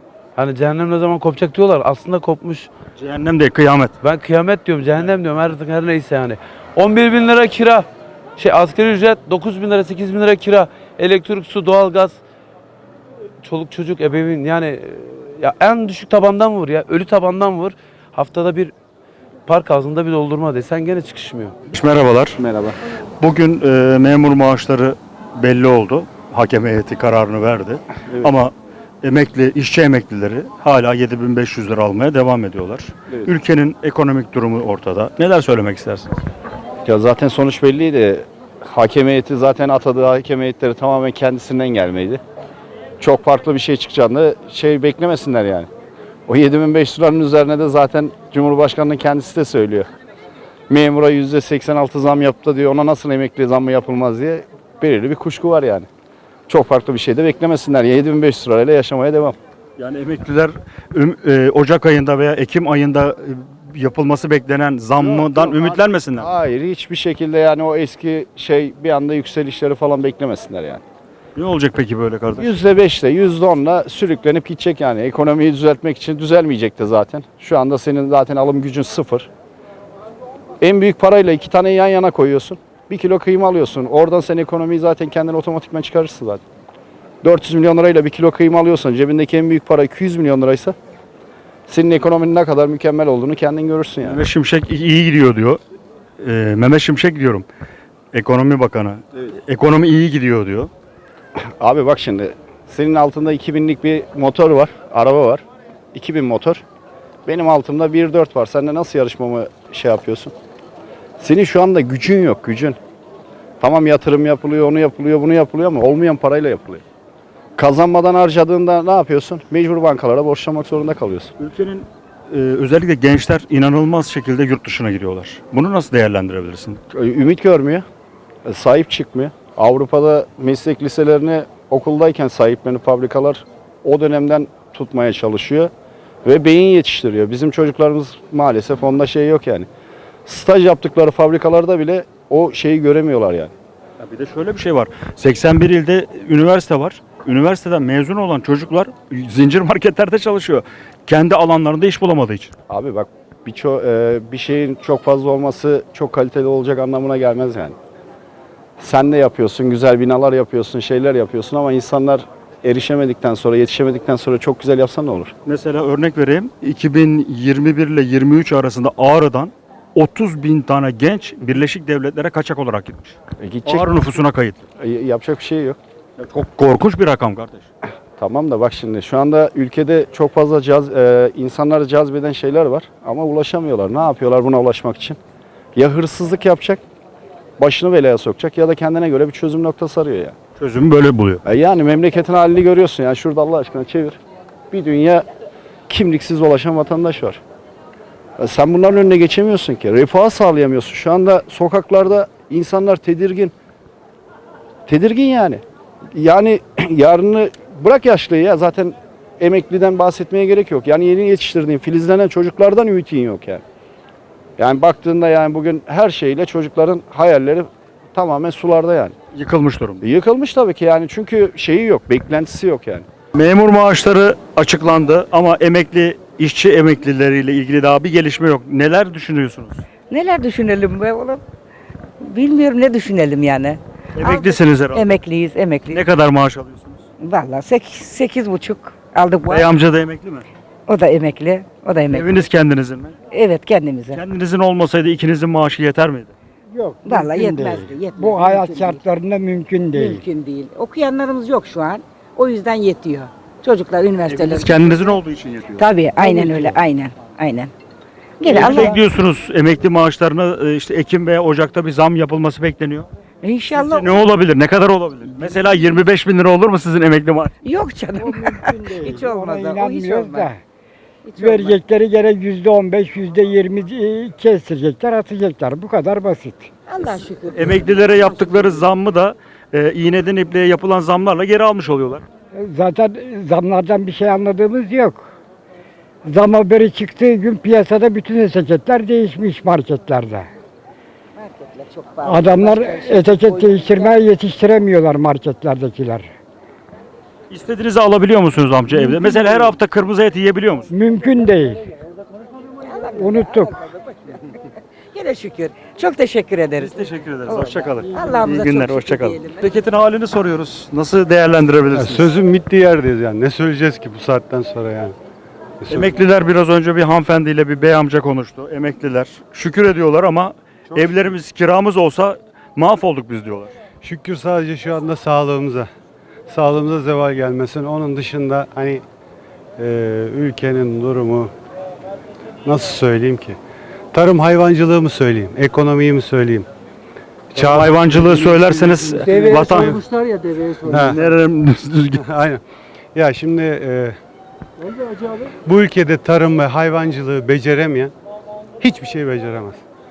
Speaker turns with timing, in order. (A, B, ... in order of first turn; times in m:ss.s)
0:00.4-0:02.7 A
0:03.0-0:04.0 B
0:04.0-0:12.2 A
0:13.4-0:18.7 A
0:19.5-0:21.6 A
0:21.7-0:22.4 B
0:22.4-0:22.8 C
0:23.2-0:36.1 B
0:36.8-0:42.2 C
0:43.0-0:45.7 C
0:46.3-0:49.9 C
0:50.7-0:55.9 C
0:56.5-0:59.4 C
0:59.8-1:06.3 B
1:05.0-1:10.8 C
1:11.4-1:12.6 B
1:12.4-1:19.3 C
1:20.6-1:26.4 C
1:27.2-1:30.8 C
1:31.7-1:34.3 C
1:34.0-1:35.6 B
1:36.2-1:37.5 B
1:38.1-1:40.7 B
1:41.4-1:45.4 C
1:45.9-1:46.6 C
1:47.3-1:50.3 C
1:51.2-1:52.8 C
1:53.6-1:56.8 C
1:57.6-2:01.3 C
2:01.4-2:06.8 B
2:06.9-2:07.9 C
2:08.4-2:15.7 C
2:16.2-2:19.7 C
2:20.3-2:23.5 C
2:24.0-2:32.5 B
2:32.7-2:37.8 C
2:38.8-2:45.3 C
2:45.4-2:54.7 B
2:53.4-2:53.9 C
2:54.8-2:55.8 C
2:56.2-2:57.7 B
2:58.2-3:05.2 C
3:05.8-3:06.8 C
3:07.6-3:10.4 C
3:10.6-3:11.4 B
3:11.4-3:14.2 C
3:14.7-3:15.3 C
3:15.9-3:17.4 C
3:18.4-3:23.5 C
3:24.9-3:25.6 C
3:26.1-3:33.6 C
3:34.6-3:39.2 C
3:39.3-3:40.1 B
3:40.0-3:43.1 C
3:43.3-3:49.9 B
3:50.1-3:51.4 D
3:52.2-3:56.0 D
3:54.2-3:55.1 B
3:55.9-3:57.0 B
3:57.2-3:59.7 D
3:59.4-4:00.5 B
4:00.9-4:02.3 D
4:02.1-4:03.2 B
4:03.3-4:04.2 D
4:04.1-4:06.3 B
4:06.7-4:10.3 E
4:07.0-4:09.0 D
4:09.9-4:15.1 D
4:14.3-4:16.8 B
4:15.8-4:17.7 D
4:18.4-4:19.0 D
4:18.5-4:23.1 B
4:23.4-4:24.2 D
4:23.7-4:27.5 B
4:27.6-4:30.5 D
4:28.2-4:30.6 E
4:31.2-4:31.8 D
4:31.4-4:36.7 E
4:36.9-4:38.9 D
4:37.5-4:42.2 B
4:42.6-4:45.2 E
4:46.2-4:50.5 E
4:51.4-4:54.2 D
4:52.2-4:56.3 E
4:57.5-5:00.9 B
4:58.9-4:59.7 D
5:00.9-5:01.8 E
5:02.8-5:04.3 D
5:03.1-5:03.8 E
5:05.1-5:09.6 D
5:06.8-5:12.3 B
5:11.9-5:15.2 F
5:15.8-5:16.2 F
5:15.9-5:23.8 B
5:20.9-5:21.3 F
5:24.0-5:25.9 F
5:26.5-5:29.0 F
5:29.8-5:31.5 F
5:32.7-5:33.6 F
5:34.1-5:36.7 F
5:37.5-5:40.1 F
5:37.6-5:40.0 B
5:40.8-5:41.2 F
5:41.0-5:42.2 B
5:42.2-5:42.6 F
5:43.2-5:44.2 F
5:45.6-5:48.1 F
5:48.8-5:49.8 F